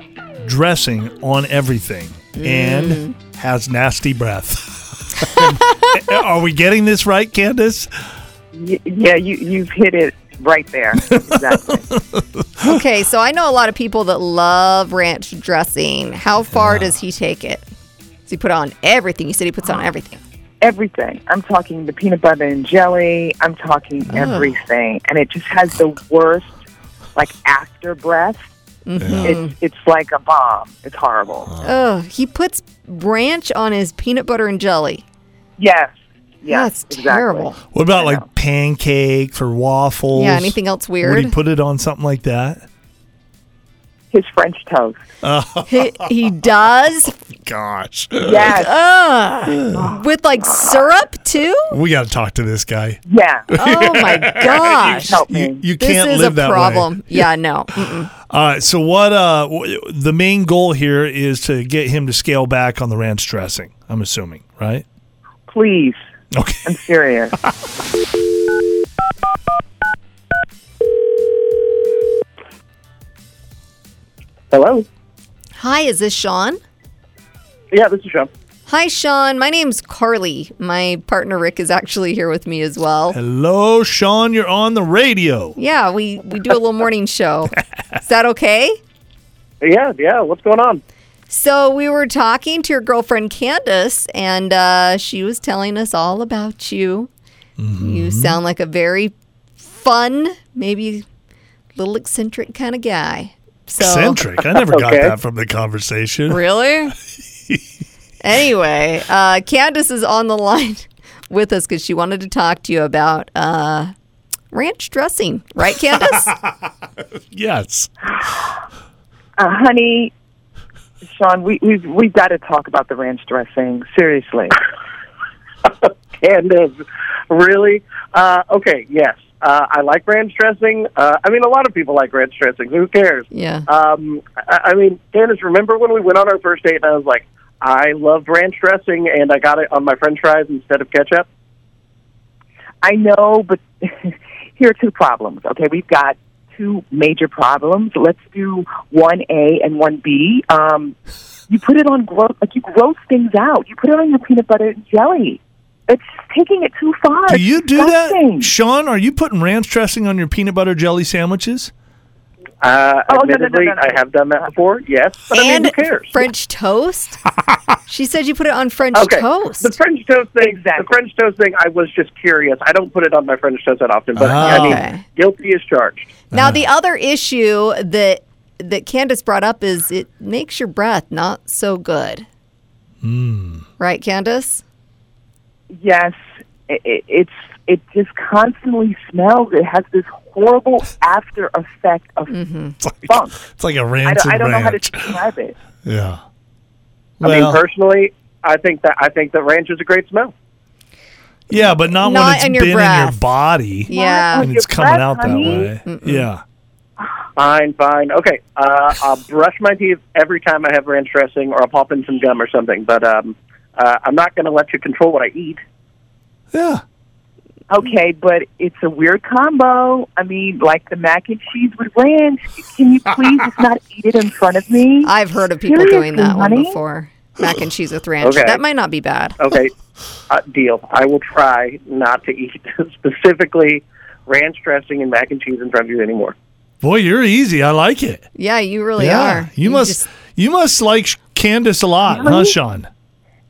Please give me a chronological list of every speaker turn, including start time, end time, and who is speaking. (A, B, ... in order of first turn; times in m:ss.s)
0:00.4-0:07.9 A
0:02.4-0:03.1 B
0:08.5-0:11.9 C
0:12.2-0:12.8 A
0:12.6-0:17.6 B
0:16.5-0:16.9 A
0:18.3-0:20.2 B
0:20.6-0:26.5 C
0:24.1-0:24.5 B
0:27.2-0:28.4 C
0:28.8-0:29.5 B
0:29.0-0:29.4 A
0:29.2-0:31.5 C
0:31.5-0:31.8 A
0:31.6-0:35.0 B
0:35.6-0:35.9 C
0:36.4-0:38.2 C
0:36.5-0:37.6 B
0:37.7-0:42.6 A
0:40.1-0:41.3 B
0:44.1-0:45.0 C
0:45.2-0:46.1 A
0:45.7-0:47.1 B
0:47.4-0:48.6 A
0:48.2-0:48.7 C
0:48.5-0:51.7 B
0:50.5-0:50.8 C
0:51.7-0:57.3 A
0:53.1-0:53.5 C
0:53.5-0:55.2 B
0:55.1-0:55.6 C
0:55.8-0:58.1 B
0:58.3-1:04.8 A
1:05.5-1:06.0 C
1:06.3-1:06.7 A
1:06.6-1:07.4 C
1:14.5-1:14.8 D
1:15.6-1:16.6 B
1:17.7-1:18.3 D
1:18.7-1:23.2 B
1:23.1-1:25.6 A
1:25.6-1:28.8 B
1:29.6-1:30.8 D
1:31.3-1:37.1 B
1:37.6-1:38.4 A
1:37.8-1:41.0 B
1:41.7-1:44.2 B
1:43.8-1:46.4 A
1:44.6-1:45.1 D
1:46.3-1:46.9 B
1:48.2-1:53.9 B
1:54.5-1:56.3 B
1:56.1-1:56.5 A
1:57.2-1:58.1 A
1:59.4-2:00.1 C
2:01.0-2:04.6 C
2:05.6-2:21.3 D
2:13.3-2:13.6 B
2:22.8-2:30.9 C
2:31.5-2:38.5 C
2:37.3-2:41.7 A
2:42.6-2:46.3 D
2:43.1-2:44.4 C
2:45.3-2:47.2 B
2:47.9-2:49.7 B
2:48.9-2:56.1 D
2:50.4-2:51.0 C
2:54.2-2:54.8 A
2:54.4-2:55.0 B
2:56.3-2:56.7 A
2:56.3-3:02.2 B
3:03.0-3:03.6 A
3:03.8-3:04.6 B
3:05.7-3:12.4 C
3:12.3-3:12.8 B
3:12.8-3:15.2 A
3:13.1-3:13.4 C
3:14.0-3:15.6 C
3:15.8-3:16.2 A
3:17.2-3:17.6 A
3:17.2-3:20.3 D
3:21.5-3:26.4 A
3:21.5-3:23.2 B
3:23.8-3:24.5 B
3:23.9-3:25.7 C
3:25.2-3:26.3 B
3:27.4-3:35.6 D
3:36.5-3:36.8 A
3:37.7-3:45.1 C
3:45.0-3:49.4 B
3:45.7-3:46.8 C
3:48.2-3:48.6 D
3:49.4-3:49.7 D
3:50.3-3:56.3 D
3:56.8-3:58.2 A
3:58.3-4:00.0 B
3:59.0-4:02.9 A
4:02.1-4:02.5 C